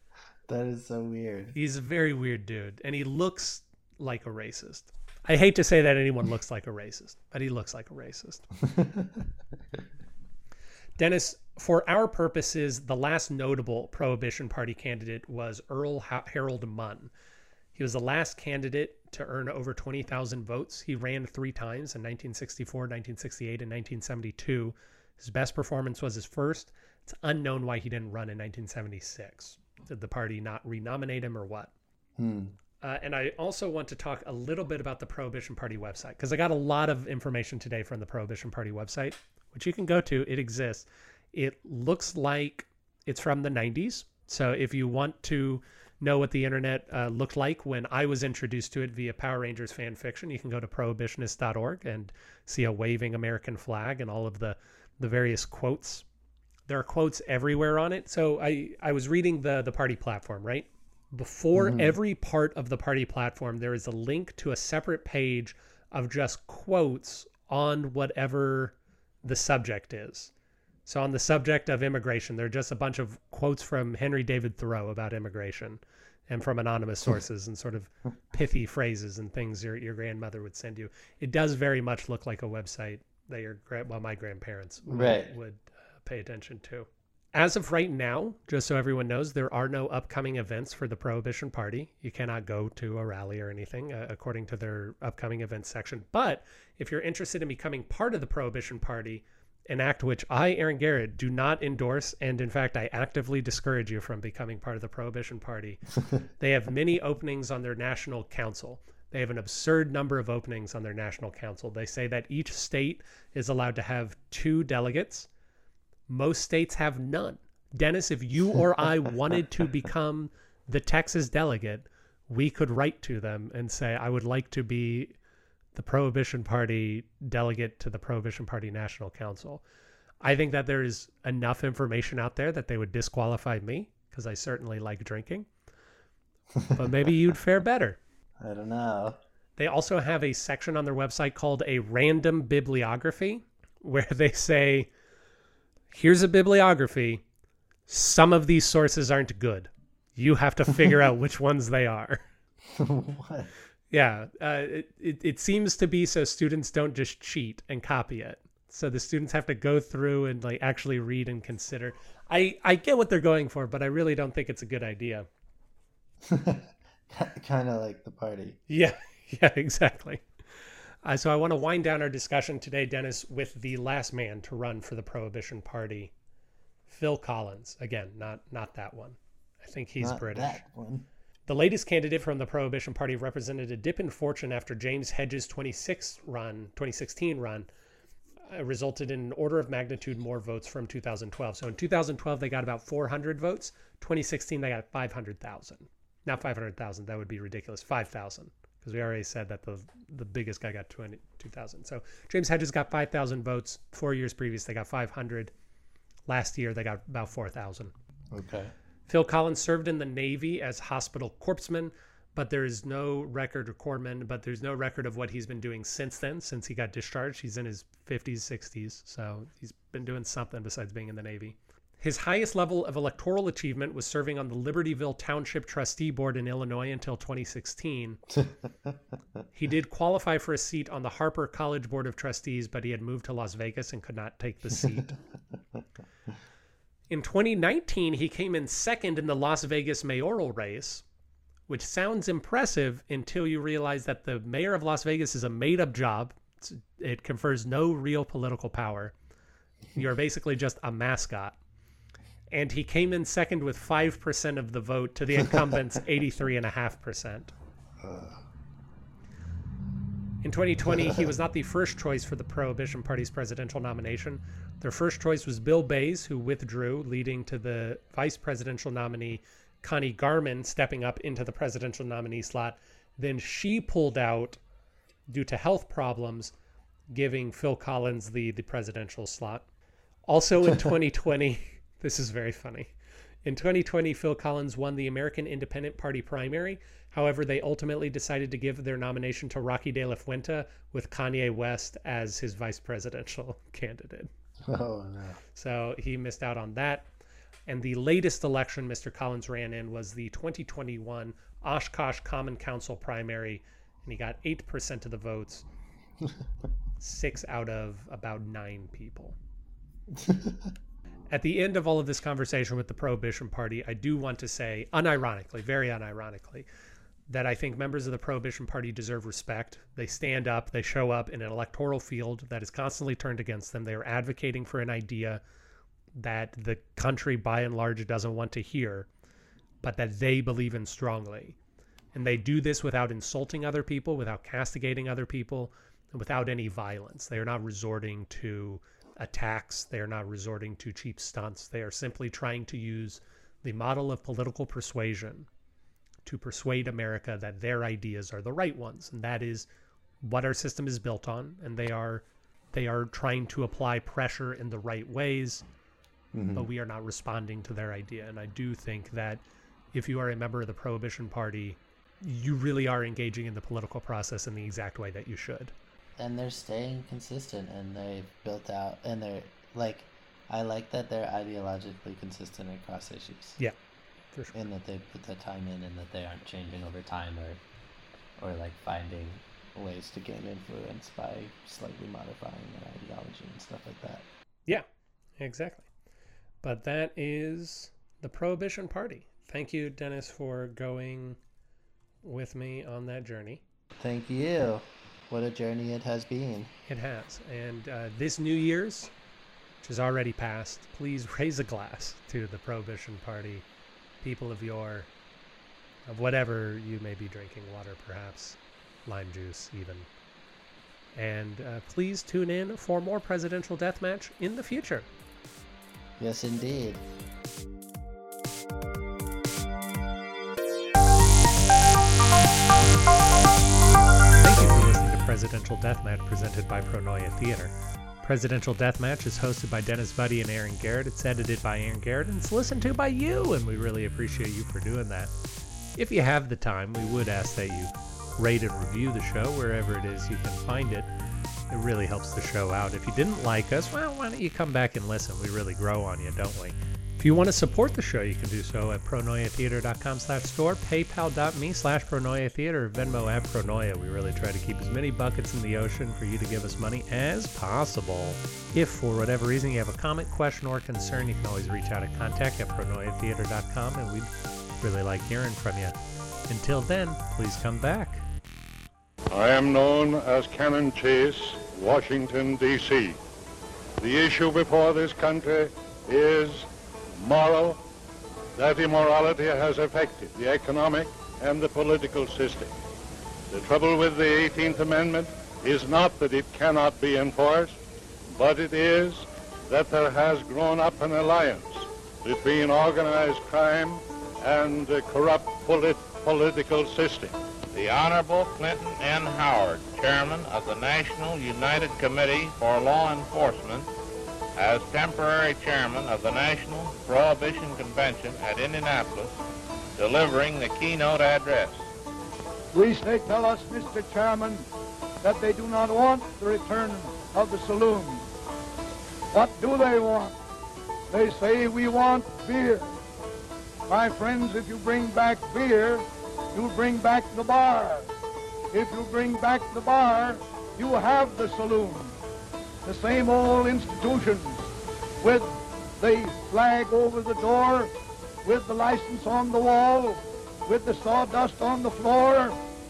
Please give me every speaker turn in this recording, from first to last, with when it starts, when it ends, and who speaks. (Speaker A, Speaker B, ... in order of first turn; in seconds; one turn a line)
Speaker A: 0.5-1.5
Speaker B: 1.5-8.5
Speaker A: 8.7-9.2
Speaker B: 11.0-17.1
Speaker B: 17.7-31.7
Speaker A: 32.2-32.5
Speaker B: 32.8-56.0
Speaker B: 56.7-70.3
Speaker A: 61.5-61.9
Speaker B: 70.8-105.8
Speaker A: 84.8-85.3
Speaker B: 106.4-115.3
Speaker B: 116.1-125.1
Speaker B: 125.7-129.6
Speaker B: 130.2-135.5
Speaker B: 136.7-138.0
Speaker A: 138.4-139.2
Speaker B: 139.6-144.9
Speaker B: 145.9-147.2
Speaker B: 147.9-152.2
Speaker A: 152.7-153.5
Speaker B: 153.9-165.3
Speaker A: 166.2-168.6
Speaker B: 168.7-170.2
Speaker B: 171.0-176.1
Speaker B: 176.9-180.6
Speaker A: 180.0-181.1
Speaker B: 181.5-187.7
Speaker B: 188.5-205.5
Speaker B: 206.3-207.9
Speaker A: 208.3-208.7
Speaker B: 209.1-228.2
Speaker A: 228.3-228.9
Speaker B: 229.5-235.2
Speaker B: 237.1-241.0
Speaker B: 241.7-249.1
Speaker B: 249.9-251.6
Speaker B: 252.5-257.5
Speaker A: 258.0-258.4
Speaker B: 260.4-274.6
Speaker B: 275.3-276.5
Speaker B: 277.1-279.6
Speaker B: 280.3-282.9
Speaker B: 283.4-294.3
Speaker A: 294.6-295.4
Speaker B: 295.6-297.0
Speaker B: 297.7-305.6
Speaker B: 307.0-309.4
Speaker A: 310.2-310.5
Speaker B: 311.3-316.6
Speaker B: 317.3-325.4
Speaker B: 326.1-329.1
Speaker B: 329.8-331.6
Speaker B: 332.1-345.5
Speaker B: 346.2-349.7
Speaker B: 350.2-355.6
Speaker A: 356.3-356.7
Speaker B: 356.6-359.4
Speaker B: 359.9-365.7
Speaker A: 366.2-373.6
Speaker A: 374.5-377.6
Speaker A: 378.4-384.2
Speaker B: 385.4-385.9
Speaker B: 386.6-391.4
Speaker B: 392.2-393.6
Speaker A: 394.0-396.7
Speaker B: 396.9-399.1
Speaker B: 399.8-403.6
Speaker B: 404.2-405.1
Speaker B: 406.1-410.1
Speaker B: 411.1-415.1
Speaker A: 416.2-417.1
Speaker B: 424.4-435.3
Speaker B: 435.9-441.1
Speaker B: 441.7-464.3
Speaker B: 464.8-465.9
Speaker B: 466.5-468.2
Speaker C: 469.3-473.2
Speaker C: 474.0-476.6
Speaker C: 477.2-477.8
Speaker C: 478.6-482.7
Speaker C: 483.5-487.8
Speaker C: 488.3-497.4
Speaker D: 497.7-503.9
Speaker D: 504.6-509.3
Speaker D: 509.9-511.9
Speaker E: 512.7-514.7
Speaker E: 515.2-518.3
Speaker E: 519.3-520.3
Speaker E: 521.1-522.9
Speaker E: 523.9-528.1
Speaker E: 528.7-532.1
Speaker E: 532.8-534.7
Speaker E: 535.2-537.9
Speaker E: 538.4-542.6